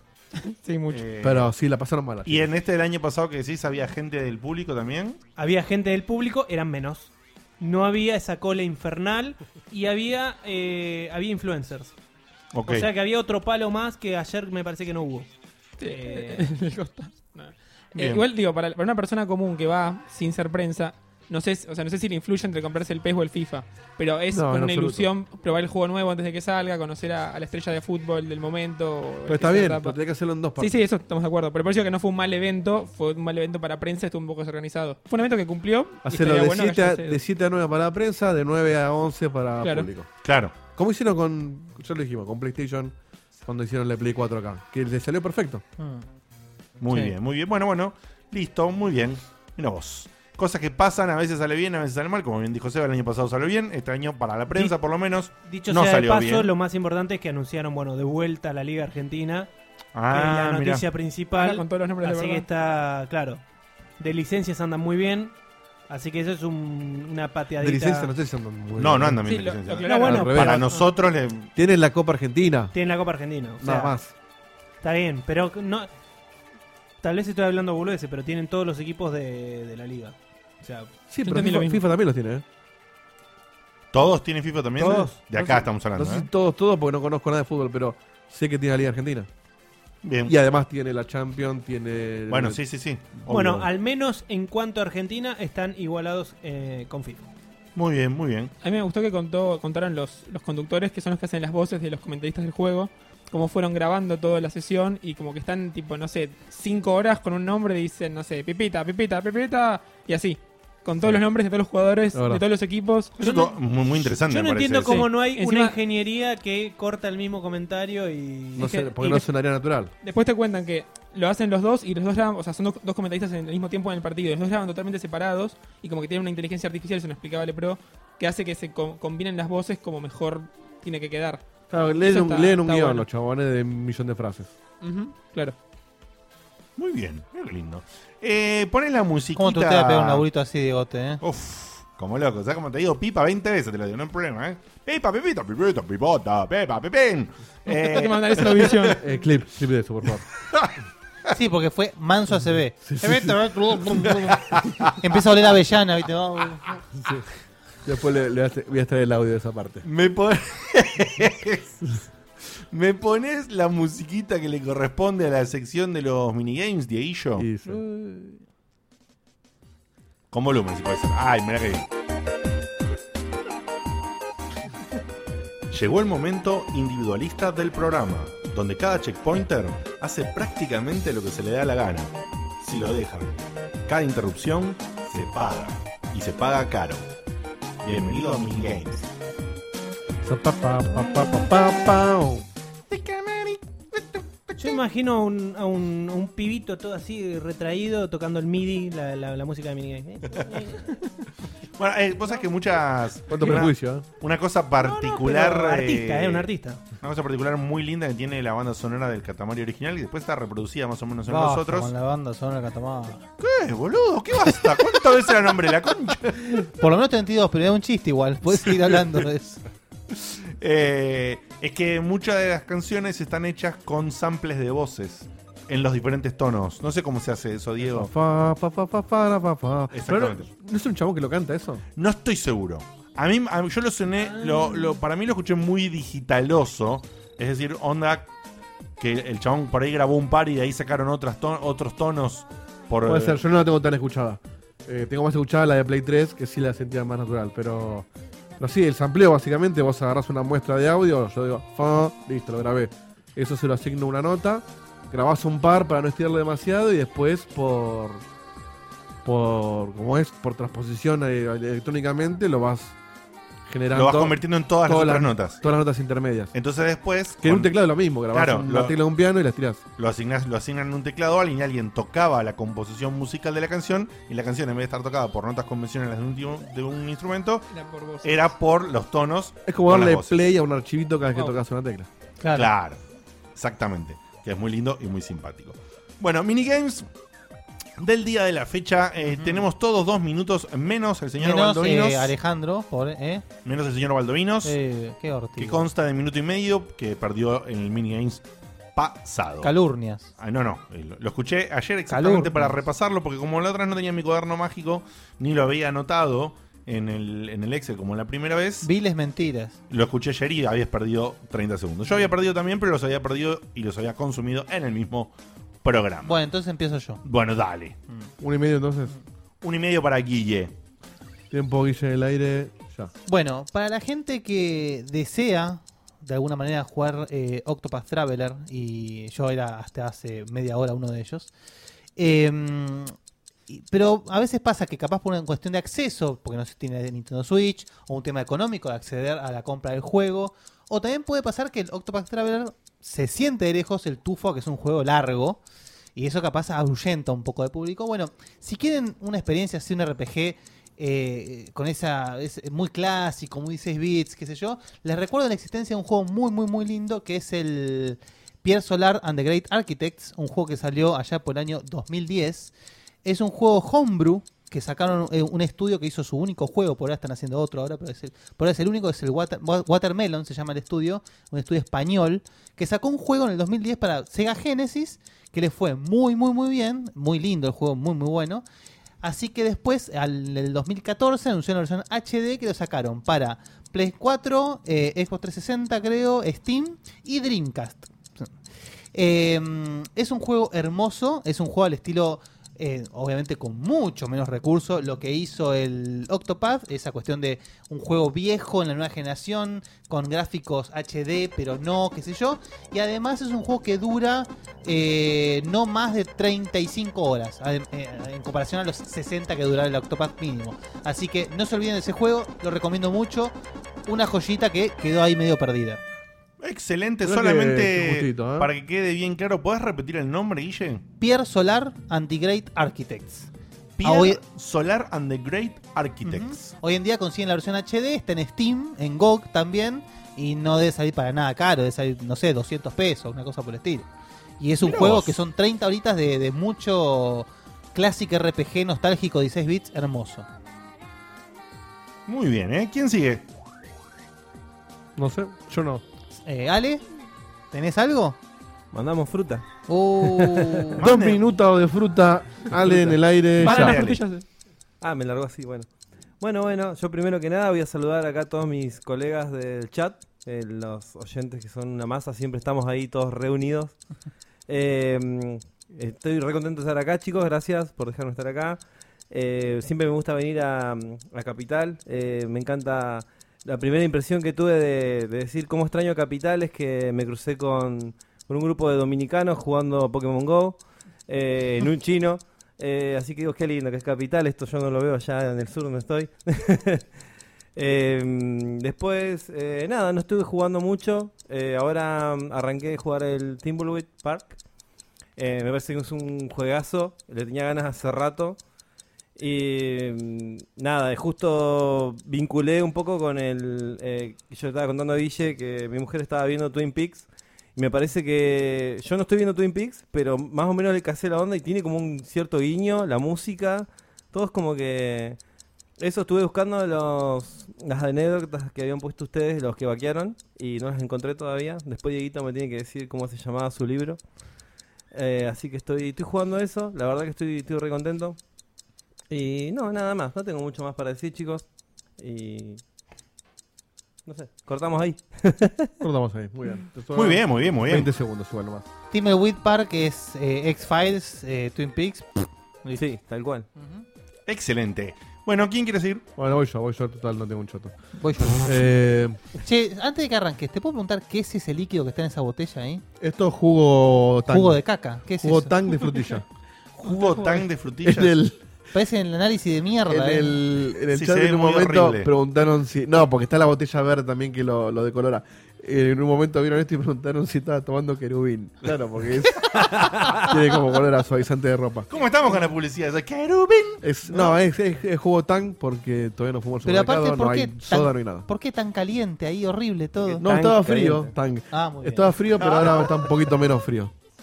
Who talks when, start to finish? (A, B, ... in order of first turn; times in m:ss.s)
0:00.4-0:01.0 A
0:00.9-0:01.5 B
0:01.2-0:02.5 C
0:02.2-0:05.2 B
0:05.4-0:11.9 D
0:12.5-0:12.9 B
0:12.6-0:15.3 D
0:15.8-0:30.0 A
0:15.8-0:16.5 D
0:17.9-0:18.2 B
0:24.3-0:25.1 C
0:29.3-0:30.8 C
0:30.6-0:37.2 A
0:36.0-0:40.1 C
0:39.6-0:39.9 A
0:40.2-0:40.6 B
0:40.7-0:42.9 C
0:43.4-0:45.6 C
0:45.8-0:46.0 E
0:46.8-0:56.5 B
0:55.4-0:59.5 D
0:59.9-1:00.8 B
1:00.1-1:03.4 D
1:01.4-1:02.4 A
1:04.0-1:05.3 D
1:05.9-1:08.1 D
1:07.6-1:09.2 C
1:08.8-1:11.5 B
1:09.2-1:10.4 A
1:09.8-1:10.8 D
1:10.0-1:10.6 C
1:11.6-1:12.7 C
1:12.7-1:14.0 D
1:13.6-1:14.1 C
1:14.8-1:15.9 D
1:17.0-1:20.9 D
1:21.1-1:22.4 C
1:21.2-1:21.8 A
1:23.9-1:26.3 B
1:24.8-1:25.2 D
1:25.3-1:29.3 C
1:30.0-1:30.3 B
1:30.3-1:32.6 C
1:32.3-1:33.7 B
1:33.3-1:37.3 D
1:37.7-1:38.5 B
1:38.6-1:53.1 A
1:52.1-1:52.4 C
1:53.2-1:55.0 B
1:53.2-1:58.8 D
1:54.9-1:55.8 A
1:58.6-1:59.9 C
1:58.6-1:59.3 A
2:00.0-2:11.4 A
2:11.7-2:14.5 C
2:12.0-2:13.0 A
2:14.8-2:15.5 A
2:16.8-2:20.2 B
2:19.4-2:21.2 E
2:21.2-2:29.0 B
2:27.7-2:29.0 A
2:29.0-2:30.2 C
2:31.3-2:36.8 E
2:32.8-2:34.1 C
2:37.8-2:39.8 C
2:39.8-2:41.8 B
2:42.7-2:47.5 B
2:47.4-2:48.4 C
2:50.3-2:51.9 B
2:55.7-3:07.0 B
3:07.8-3:09.1 B
3:10.2-3:12.4 C
3:12.9-3:14.7 B
3:14.6-3:20.9 D
3:21.8-3:26.5 B
3:23.3-3:24.0 C
3:24.8-3:26.8 D
3:27.0-3:31.9 B
3:31.3-3:33.2 E
3:33.4-3:36.5 B
3:36.6-3:39.6 E
3:40.1-3:48.1 B
3:47.8-3:51.8 C
3:49.9-3:50.4 B
3:52.0-3:58.3 B
3:59.0-4:03.4 B
4:03.0-4:08.1 C
4:08.6-4:18.2 C
4:19.2-4:23.0 C
4:23.7-4:26.5 C
4:23.9-4:25.6 B
4:26.5-4:27.7 B
4:27.4-4:29.8 C
4:28.3-4:28.9 B
4:30.0-4:37.6 B
4:37.7-4:38.5 A
4:38.2-4:40.3 B
4:39.7-4:42.1 C
4:42.4-4:42.7 E
4:42.5-4:43.0 B
4:43.6-4:47.1 B
4:48.0-4:52.3 B
4:49.3-4:49.7 E
4:51.4-4:53.5 E
4:53.6-4:54.8 B
4:54.6-4:55.9 E
4:55.6-4:58.4 B
4:58.9-4:59.7 B
4:59.6-5:00.3 E
5:00.4-5:08.9 B
5:02.1-5:02.8 E
5:08.8-5:09.8 E
5:09.9-5:15.3 B
5:15.8-5:16.4 B
5:16.2-5:17.2 E
5:17.2-5:18.0 B
5:18.4-5:19.2 C
5:19.6-5:20.7 B
5:21.5-5:23.1 C
5:23.2-5:31.5 E
5:32.2-5:33.1 E
5:33.7-5:45.6 E
5:46.2-6:02.7 E
6:03.2-6:18.6 E
6:19.2-6:28.5 E
6:29.1-6:53.5 E
6:54.0-6:56.0 E
6:56.6-7:01.0 B
6:57.2-6:58.7 C
7:01.2-7:03.5 E
7:04.0-7:06.7 B
7:04.0-7:04.4 E
7:06.2-7:14.1 E
7:14.6-7:20.4 E
7:14.8-7:15.4 B
7:22.3-7:23.4 B
7:25.2-7:26.0 C
7:26.4-7:27.0 E
7:27.7-7:28.4 E
7:28.9-7:29.6 F
7:29.9-7:31.0 E
7:30.2-7:30.9 F
7:31.0-7:31.4 B
7:31.0-7:34.0 C
7:32.9-7:33.2 F
7:33.6-7:34.2 B
7:33.6-7:34.4 A
7:35.0-7:35.9 F
7:36.4-7:44.0 F
7:44.7-8:07.1 F
8:07.8-8:14.6 F
8:15.4-8:18.6 F
8:19.4-8:35.4 F
8:36.0-8:44.2 F
8:45.1-8:48.4 F
8:49.3-8:51.6 F
8:52.2-8:52.8 F
8:54.2-8:55.9 F
8:56.0-8:58.8 C
8:57.1-8:58.1 B
8:59.1-9:03.0 E
9:03.0-9:03.6 F
9:03.8-9:04.0 E
9:04.5-9:06.2 B
9:06.4-9:07.9 C
9:08.2-9:08.9 E
9:08.5-9:09.4 C
9:09.6-9:13.0 E
9:13.2-9:14.8 C
9:14.5-9:15.7 E
9:15.4-9:16.4 C
9:17.0-9:18.3 B
9:18.0-9:18.6 C
9:18.9-9:20.6 E
9:20.1-9:32.1 C
9:21.1-9:22.3 B
9:32.1-9:34.0 B
9:34.0-9:38.4 C
9:36.8-9:40.5 E
9:40.4-9:41.3 F
9:40.4-9:44.1 C
9:41.7-9:43.1 E